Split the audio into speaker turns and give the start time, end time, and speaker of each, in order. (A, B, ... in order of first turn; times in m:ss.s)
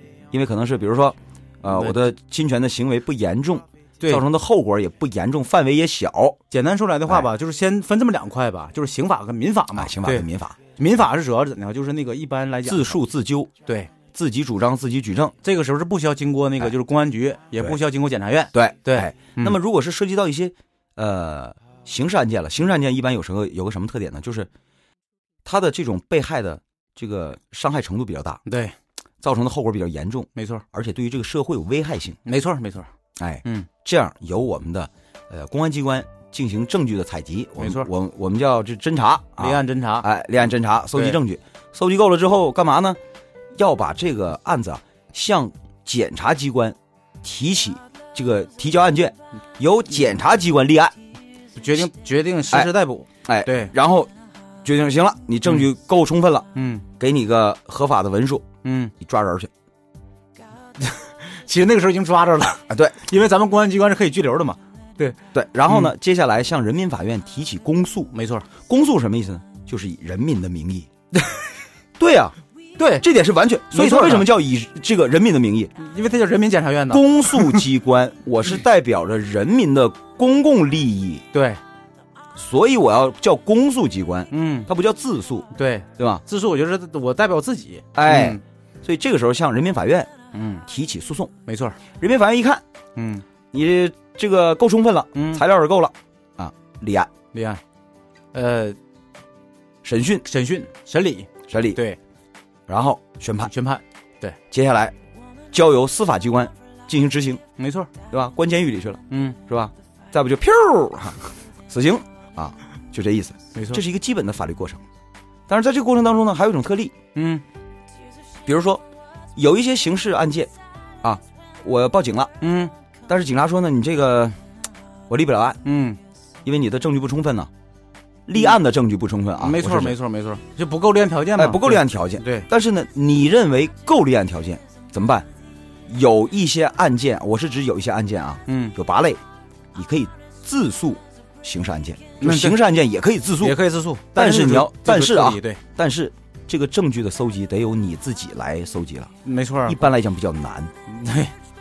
0:00.3-0:06.4 A
0:06.5-0:13.0 B
0:09.8-0:10.6 A
0:12.6-0:13.5 A
0:13.6-0:13.9 B
0:14.1-0:15.4 A
0:15.4-0:19.6 B
0:18.5-0:24.5 A
0:25.4-0:28.4 A
0:28.5-0:28.8 B
0:29.2-0:32.2 A
0:30.4-0:30.6 B
0:32.2-0:32.9 B
0:33.2-0:43.0 A
0:37.6-0:37.9 B
0:39.4-0:40.1 B
0:43.6-0:51.0 A
0:51.6-0:53.7 B
0:53.2-0:54.1 A
0:54.6-0:58.5 A
0:56.6-0:56.9 B
0:58.6-0:58.9 B
0:59.0-0:59.5 A
1:00.8-1:05.2 B
1:02.7-1:03.0 A
1:05.3-1:10.9 A
1:08.1-1:08.5 B
1:12.0-1:12.4 A
1:12.8-1:13.1 B
1:13.0-1:15.7 A
1:13.7-1:14.3 B
1:15.8-1:17.6 B
1:16.9-1:21.2 A
1:21.3-1:21.6 B
1:22.4-1:26.2 A
1:24.3-1:24.7 B
1:25.5-1:28.4 B
1:28.0-1:30.1 A
1:30.3-1:30.6 B
1:30.7-1:31.3 A
1:31.5-1:31.8 B
1:32.0-1:32.6 A
1:33.0-1:33.2 B
1:33.5-1:37.1 A
1:35.2-1:35.4 B
1:37.3-1:37.6 B
1:38.3-1:38.8 B
1:39.8-1:40.3 A
1:40.2-1:42.0 B
1:41.5-1:41.8 A
1:42.7-1:43.5 A
1:43.5-1:44.4 B
1:44.5-1:45.0 A
1:45.5-1:47.4 A
1:47.6-1:47.9 B
1:48.1-1:54.8 A
1:49.1-1:49.4 B
1:53.6-1:53.8 B
1:55.5-1:57.0 A
1:57.2-1:57.4 B
1:58.4-1:58.8 A
1:59.4-2:00.5 A
2:01.0-2:02.4 A
2:02.4-2:02.7 B
2:03.1-2:04.4 A
2:05.1-2:05.6 A
2:05.6-2:06.0 B
2:06.4-2:07.5 A
2:08.3-2:10.0 A
2:09.4-2:12.5 B
2:11.4-2:15.3 A
2:15.9-2:19.2 A
2:18.5-2:18.8 B
2:19.8-2:23.6 A
2:22.2-2:22.6 B
2:23.4-2:25.6 B
2:24.1-2:29.1 A
2:29.2-2:29.8 B
2:29.7-2:30.7 A
2:30.9-2:31.3 B